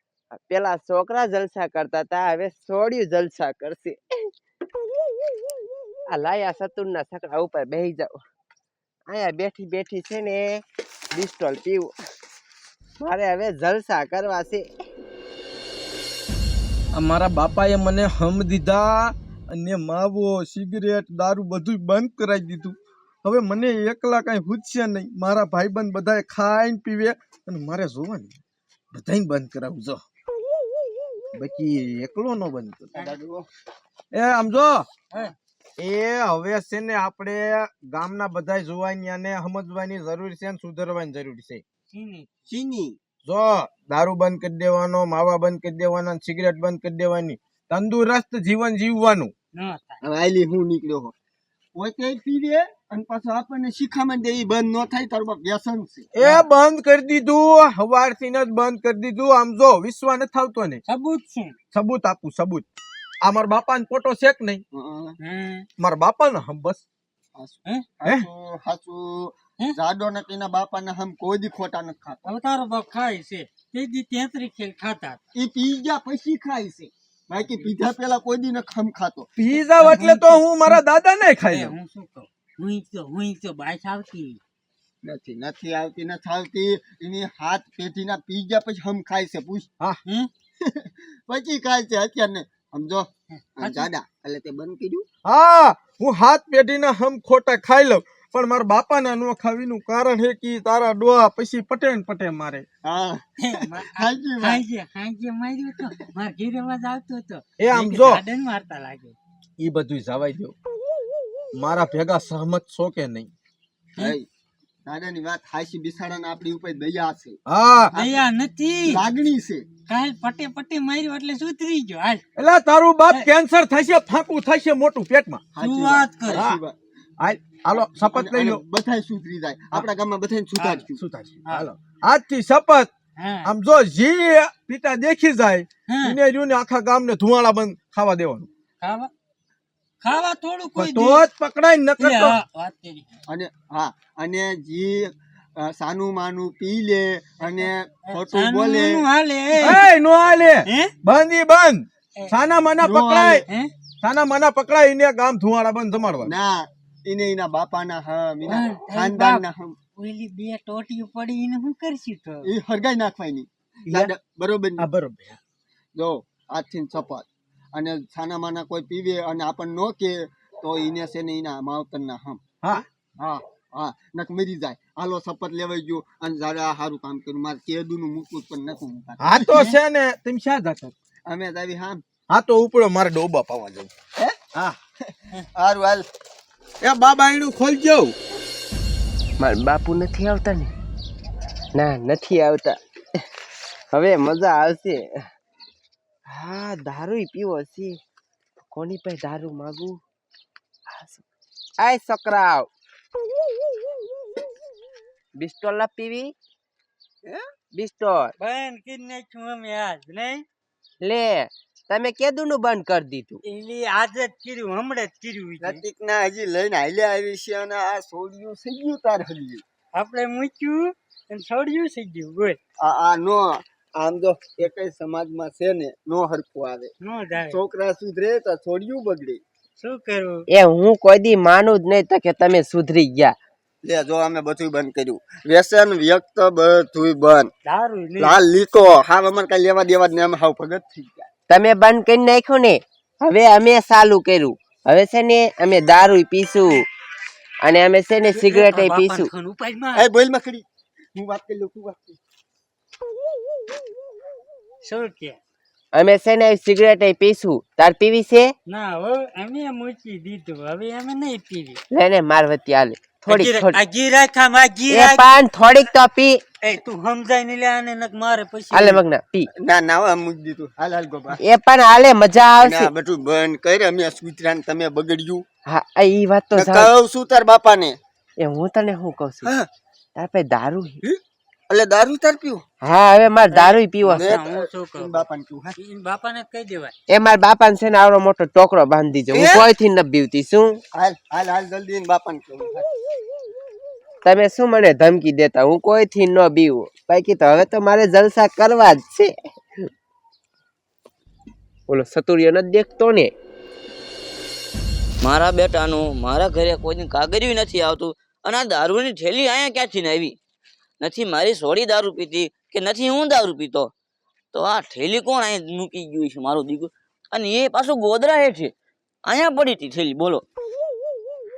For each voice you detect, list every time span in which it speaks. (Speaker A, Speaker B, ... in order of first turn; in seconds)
Speaker A: 0.5-4.0, 6.1-8.1, 9.1-10.4, 11.1-11.9, 13.0-14.6, 189.4-190.7, 191.8-193.2, 193.9-195.0, 196.3-197.9, 198.6-199.9, 200.9-201.2, 201.8-202.7, 205.4-206.3, 207.8-208.3, 211.0-213.4, 230.7-233.3, 241.5-246.7, 247.6-249.3, 256.0-258.5, 262.0-263.7, 264.9-266.4, 268.7-269.4, 271.4-272.9, 275.7-276.9, 278.4-279.5, 280.1-281.0, 282.8-284.2, 287.1-290.7, 294.2-299.3, 301.9-303.3
Speaker B: 16.9-28.4, 28.9-30.0, 31.4-33.0, 34.1-34.9, 35.8-41.6, 43.2-49.3, 56.1-60.8, 61.7-62.7, 63.2-64.6, 65.8-66.8, 79.4-81.8, 95.2-102.6, 107.6-108.2, 109.6-110.5, 111.5-113.3, 117.5-118.0, 122.4-125.4, 126.3-126.6, 127.2-128.6, 130.9-132.9, 133.4-138.5, 140.8-142.4, 149.6-153.4, 154.0-156.3, 164.8-165.4, 179.2-180.9, 182.3-183.9, 186.8-188.1
Speaker C: 33.0-33.5, 42.5-43.0, 50.0-51.1, 51.8-56.1, 64.7-65.2, 67.3-72.3, 75.3-79.3, 85.0-89.7, 90.6-95.0, 102.8-104.6, 114.0-114.3, 114.9-117.4, 118.8-119.7, 125.5-126.7, 127.9-131.0, 143.3-149.0, 152.8-153.4, 156.2-159.8, 162.4-164.9, 165.9-179.5, 181.3-182.0, 185.1-186.0, 215.6-219.6, 222.8-226.9, 227.5-229.4, 233.8-237.5, 238.2-241.3, 249.9-252.2, 269.6-271.4, 272.6-275.4, 276.5-278.0, 279.4-279.7, 281.0-282.6, 284.0-285.8, 289.3-289.7, 290.9-292.9
Speaker D: 41.9-42.3, 49.5-50.0, 56.2-56.5, 60.8-61.6, 65.2-65.7, 72.2-75.2, 79.8-80.8, 81.3-84.4, 90.0-90.3, 93.4-93.9, 103.4-109.2, 117.9-119.0, 119.9-122.2, 125.6-126.4, 130.6-130.8, 133.2-133.5, 135.9-136.2, 138.8-139.1, 140.0-141.2, 142.0-143.1, 148.1-149.9, 150.7-150.9, 153.4-153.7, 158.4-162.5, 208.4-210.4, 213.4-215.8, 219.9-222.6, 227.0-227.6, 229.8-230.4, 237.7-238.4, 248.2-250.1, 254.8-255.4, 258.7-261.8, 263.2-265.4, 266.6-269.0, 283.4-286.9
Speaker E: 305.2-310.4, 311.0-313.9, 314.5-318.7, 319.2-320.4